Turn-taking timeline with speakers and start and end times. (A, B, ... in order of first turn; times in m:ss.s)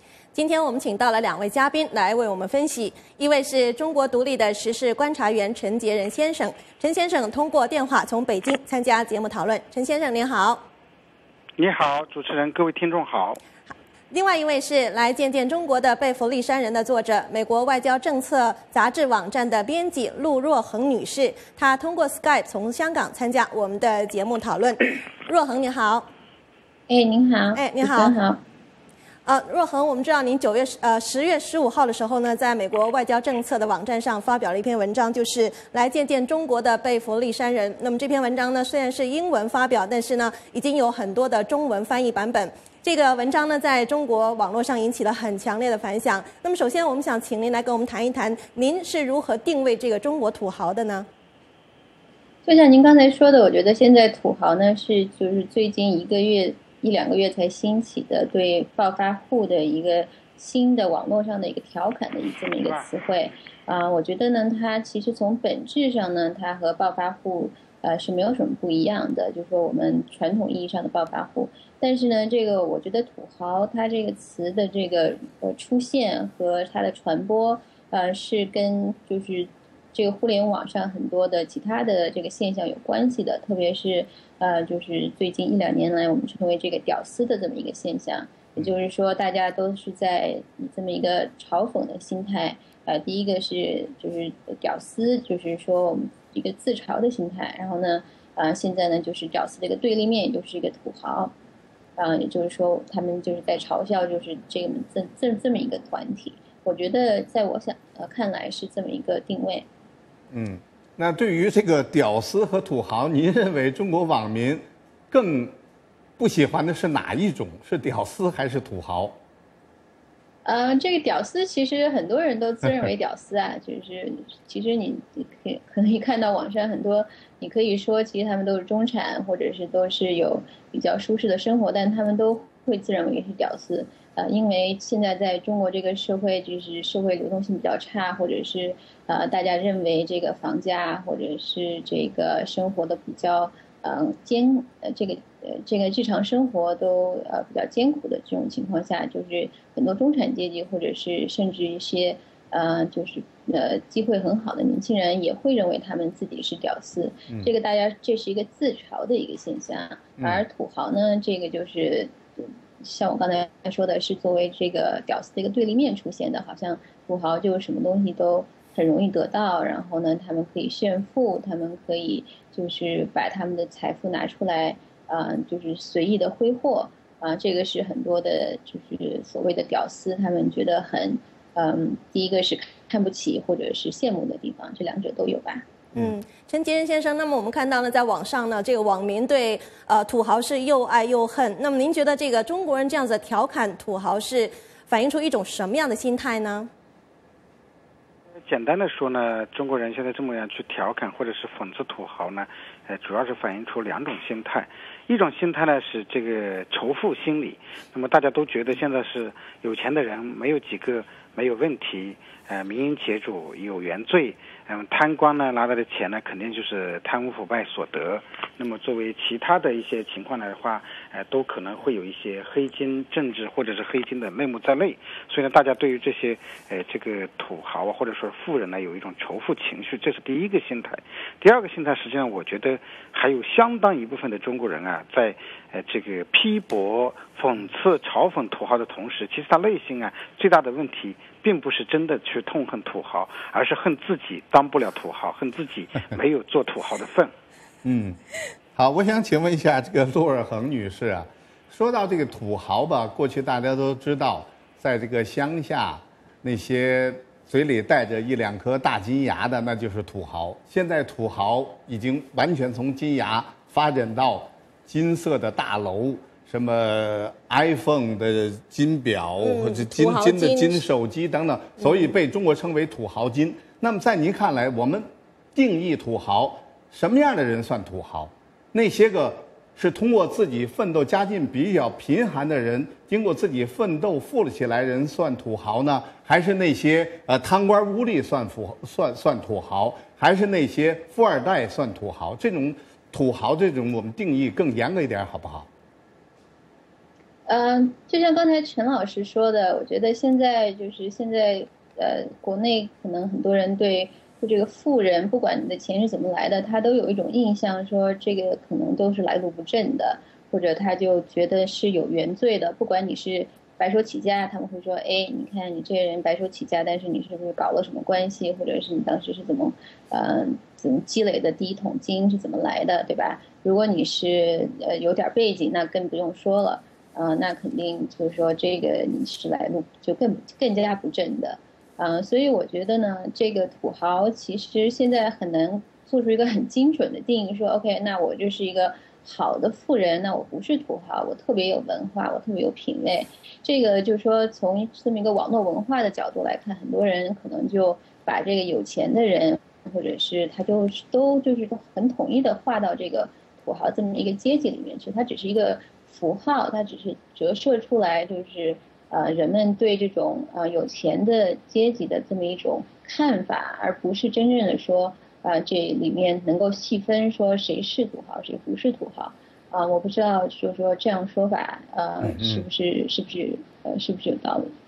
0:00.3-0:10.6 A
0:11.6-0:13.4 B
0:13.7-0:26.1 A
0:26.9-0:28.4 C
0:27.6-0:28.2 A
0:29.2-0:51.1 A
0:52.4-1:41.3 C
1:02.6-1:02.9 B
1:42.0-1:49.7 C
1:50.3-1:55.6 D
1:56.2-1:59.2 D
2:00.4-3:05.6 C
3:05.9-3:16.7 A
3:18.4-4:07.3 B
4:07.8-4:08.2 D
4:08.8-4:55.7 D
4:29.4-4:30.8 A
4:57.5-6:14.7 C
6:12.2-6:12.7 D